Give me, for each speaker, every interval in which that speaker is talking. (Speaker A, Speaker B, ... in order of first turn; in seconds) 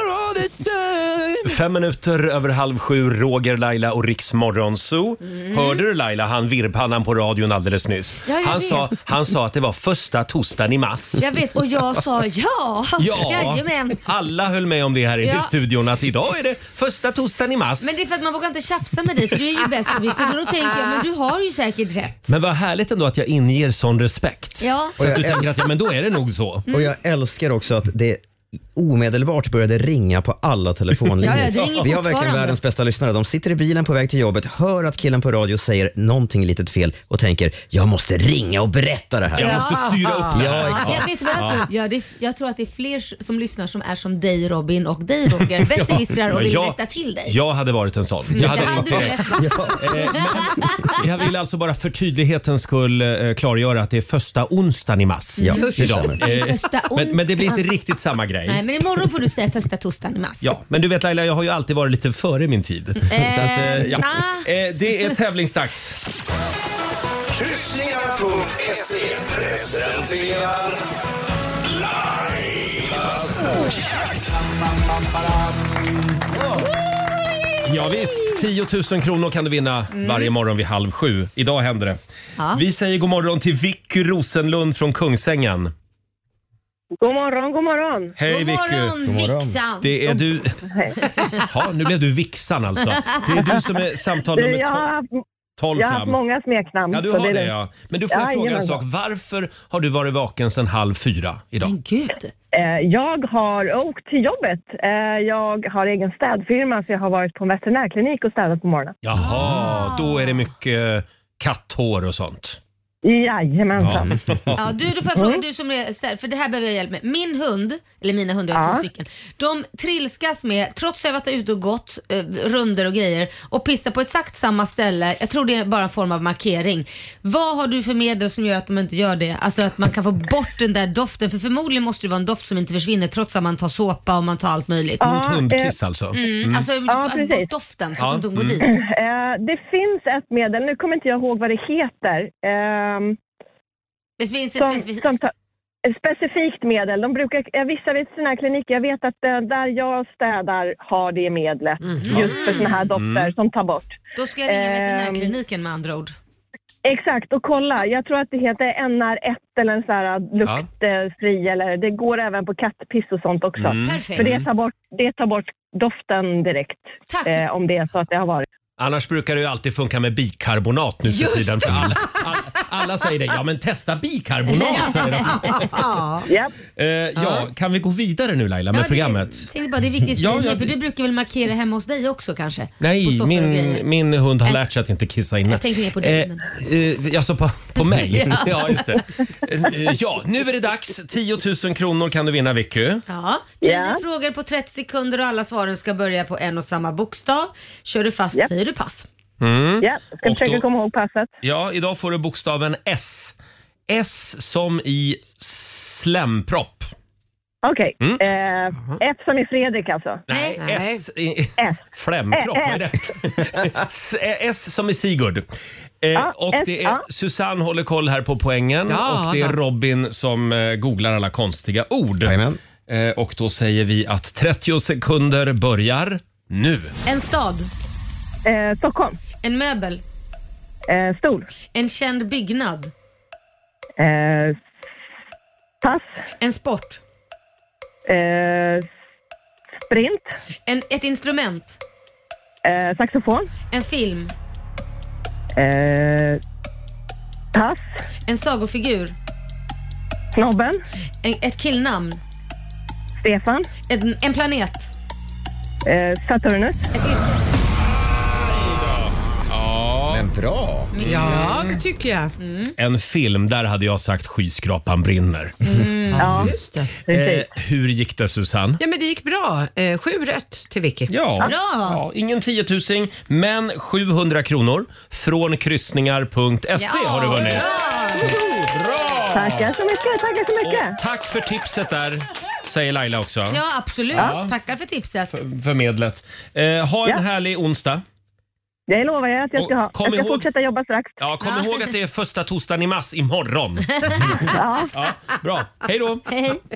Speaker A: 1.4-11.3, 13.0-17.9, 22.3-26.6, 39.3-41.7, 45.6-58.6, 60.4-66.0, 77.6-82.0, 82.5-85.7, 88.2-88.9, 89.8-90.6, 91.5-94.8, 95.6-96.2, 96.9-101.7, 109.0-112.6, 113.8-114.6, 135.0-136.6, 138.0-138.6, 152.9-153.3, 163.6-164.5, 168.8-175.8, 176.8-179.5, 180.2-180.8, 182.8-193.0, 199.4-200.6, 201.4-203.3, 203.9-206.9, 210.3-215.4, 216.0-222.3, 222.9-226.9, 258.7-260.2, 261.0-261.8, 262.8-265.5, 267.1-268.8, 271.1-277.6, 278.2-279.7, 280.6-283.6, 284.1-284.5, 285.3-288.0, 289.6-290.5, 291.2-296.3
Speaker B: 5.2-5.8, 8.2-8.9, 11.2-14.0, 15.2-15.5, 17.8-22.3, 24.6-25.0, 31.2-32.6, 39.4-47.4, 48.3-50.9, 55.4-57.6, 58.5-60.5, 63.0-64.5, 79.9-80.3, 88.2-90.0, 101.6-102.3, 109.2-110.4, 114.5-135.0, 136.1-138.8, 144.2-145.2, 152.0-152.8, 154.1-156.1, 163.8-164.3, 167.1-167.4, 174.5-175.6, 177.2-177.4, 178.7-183.8, 185.4-186.4, 188.1-188.8, 193.1-199.1, 210.3-210.6, 227.1-227.7, 229.4-230.0, 231.7-232.9, 236.4-237.0, 240.7-241.8, 243.7-244.3, 248.3-249.1, 251.2-252.2, 253.9-254.9, 256.9-257.4, 260.9-261.4, 262.4-262.7, 265.6-266.3, 271.4-272.0, 276.8-278.4, 283.5-285.3, 291.4-291.9, 294.0-294.4, 296.3-296.6
Speaker C: 25.0-25.7, 26.7-28.2, 28.7-39.6, 40.3-41.0, 48.4-50.0, 55.4-56.2, 89.0-89.6, 113.9-114.4, 222.2-222.6, 260.1-260.9
Speaker D: 39.9-40.3, 171.2-171.9, 175.6-176.2, 210.6-211.0, 218.9-219.6, 261.0-262.3, 266.1-267.0, 268.8-271.1, 278.3-278.6
Speaker E: 67.4-70.8, 72.4-72.7
Speaker F: 87.0-88.1, 90.7-91.0, 94.3-95.1, 95.8-97.5, 98.1-98.8, 102.5-108.9, 113.0-114.1, 115.2-115.4, 118.5-118.8, 135.0-135.7, 136.9-137.5, 138.6-143.2, 144.6-145.3, 145.9-153.9, 154.5-155.3, 156.8-168.4, 193.6-194.0, 199.8-201.3, 207.6-210.2, 212.3-212.8, 216.2-217.0, 228.4-229.2, 230.9-231.5, 234.0-234.6, 235.8-236.1, 238.1-238.8, 239.9-240.3, 242.6-243.5, 245.6-246.4, 247.5-247.8, 250.3-250.8, 253.2-253.7, 255.8-256.9, 266.2-266.6, 267.1-267.4, 279.3-280.9, 288.9-291.2, 294.4-294.9